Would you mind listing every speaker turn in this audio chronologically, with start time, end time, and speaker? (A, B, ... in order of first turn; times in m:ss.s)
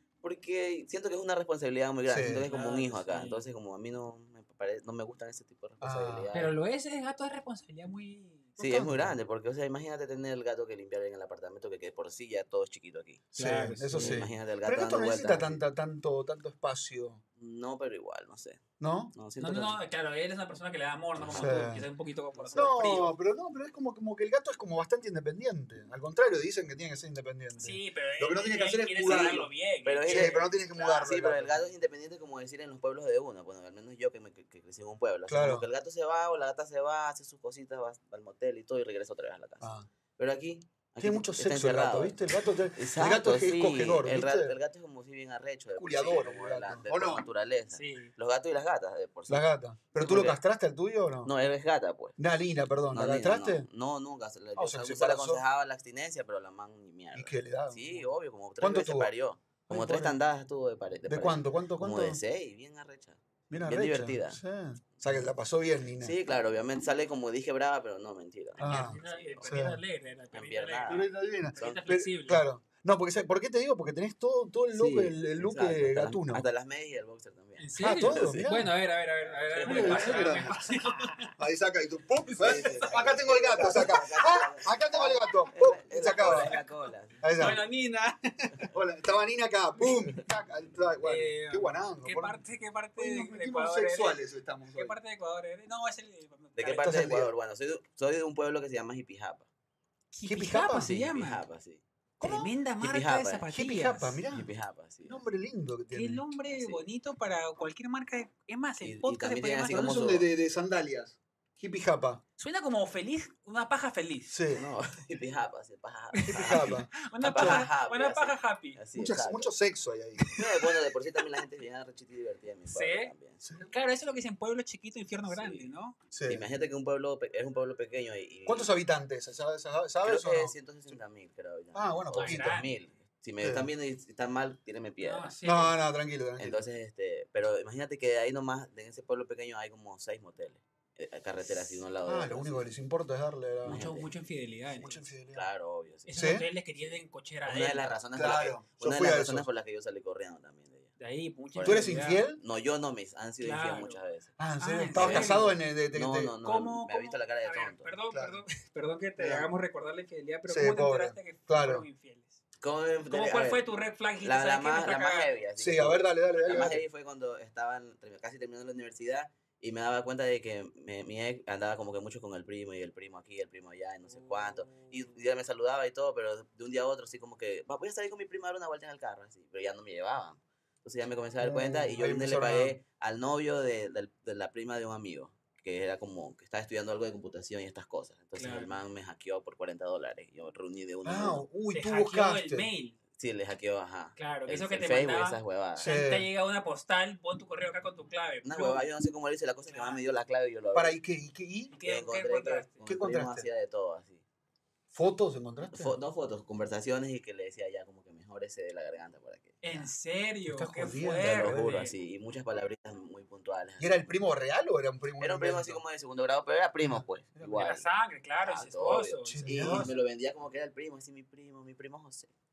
0:00.2-0:06.5 A
0:02.1-0:02.5 B
0:02.4-0:03.4 C
0:05.8-0:06.4 B
0:06.3-0:08.5 C
0:08.6-0:09.1 B
0:08.6-0:13.2 A
0:13.3-0:17.2 B
0:13.4-0:14.3 C
0:13.9-0:15.6 A
0:17.4-0:18.6 A
0:18.8-0:19.1 B
0:19.1-0:19.8 A
0:19.4-0:23.1 C
0:21.2-0:21.6 A
0:21.3-0:21.9 B
0:22.3-0:22.8 A
0:22.5-0:29.5 B
0:27.6-0:30.6 C
0:29.0-0:42.2 A
0:30.1-0:31.6 B
0:35.3-0:35.7 B
0:39.6-0:39.9 B
0:41.0-0:44.6 B
0:42.7-0:50.4 A
0:45.8-0:47.3 B
0:47.7-0:48.1 C
0:49.3-0:51.3 B
0:51.2-0:52.2 A
0:52.2-0:53.7 B
0:52.9-1:04.4 A
0:54.6-0:55.4 B
0:57.2-0:58.0 B
0:58.6-0:59.1 B
0:59.7-1:00.2 B
1:01.1-1:02.2 B
1:03.5-1:06.2 B
1:06.0-1:09.7 A
1:08.6-1:12.4 C
1:08.6-1:09.8 B
1:10.3-1:11.0 A
1:10.9-1:16.5 B
1:11.6-1:11.9 A
1:14.7-1:18.5 A
1:17.6-1:21.3 C
1:17.8-1:18.7 B
1:19.5-1:20.5 A
1:19.6-1:20.5 B
1:21.4-1:26.6 B
1:22.3-1:23.1 C
1:22.4-1:27.5 A
1:23.6-1:24.0 C
1:26.2-1:26.7 C
1:27.2-1:27.6 B
1:27.4-1:28.7 C
1:28.7-1:32.4 B
1:31.0-1:37.1 C
1:33.0-1:35.0 B
1:36.6-1:39.5 A
1:36.8-1:37.3 B
1:40.1-1:41.4 C
1:40.3-1:40.9 B
1:40.8-1:41.8 A
1:42.2-1:42.5 B
1:42.2-1:44.2 C
1:42.8-1:43.4 A
1:43.5-1:44.5 B
1:44.3-1:45.2 A
1:45.1-1:46.2 B
1:45.9-1:50.1 C
1:46.5-1:46.9 A
1:48.8-1:50.3 A
1:49.7-1:52.2 B
1:52.4-1:54.4 C
1:54.3-1:54.6 B
1:54.5-1:59.5 A
1:56.1-1:58.8 C
1:56.3-1:57.6 B
1:59.0-2:00.4 B
2:00.4-2:03.5 A
2:02.7-2:06.0 C
2:05.3-2:05.7 A
2:06.1-2:06.4 B
2:06.3-2:08.7 A
2:08.5-2:10.5 B
2:10.0-2:15.3 A
2:11.7-2:12.6 B
2:12.2-2:12.7 C
2:13.4-2:13.7 B
2:15.0-2:15.8 C
2:15.4-2:16.6 B
2:16.4-2:22.7 A
2:22.0-2:23.9 B
2:23.6-2:24.1 A
2:23.7-2:25.0 C
2:24.8-2:25.4 B
2:25.3-2:26.2 A
2:26.1-2:28.0 C
2:26.1-2:26.5 B
2:26.8-2:30.9 A
2:28.2-2:29.5 B
2:31.0-2:32.3 C
2:31.5-2:34.3 A
2:31.6-2:32.4 B
2:33.4-2:34.0 C
2:34.4-2:36.3 B
2:34.6-2:35.5 C
2:34.9-2:38.0 A
2:36.4-2:42.4 C
2:38.1-2:38.4 B
2:39.2-2:39.5 B
2:40.5-2:41.9 B
2:42.6-2:43.6 A
2:43.1-2:45.4 C
2:44.2-3:11.5 A
2:45.6-2:46.8 B
2:54.1-2:55.0 C
3:01.4-3:02.8 B
3:08.4-3:08.8 C
3:11.0-3:12.7 B
3:11.7-3:13.0 C
3:13.2-3:15.9 A
3:14.2-3:18.9 C
3:15.8-3:16.3 B
3:18.4-3:21.0 A
3:19.7-3:20.0 C
3:20.7-3:21.7 B
3:21.7-3:22.8 C
3:21.8-3:24.2 A
3:22.8-3:23.5 B
3:24.9-3:26.0 B
3:25.7-3:29.9 A
3:29.6-3:31.9 C
3:30.5-3:31.7 B
3:31.2-3:34.1 A
3:33.8-3:35.8 B
3:35.2-3:37.9 A
3:36.8-3:37.6 B
3:37.5-3:39.9 C
3:38.4-3:42.3 A
3:39.3-3:39.9 B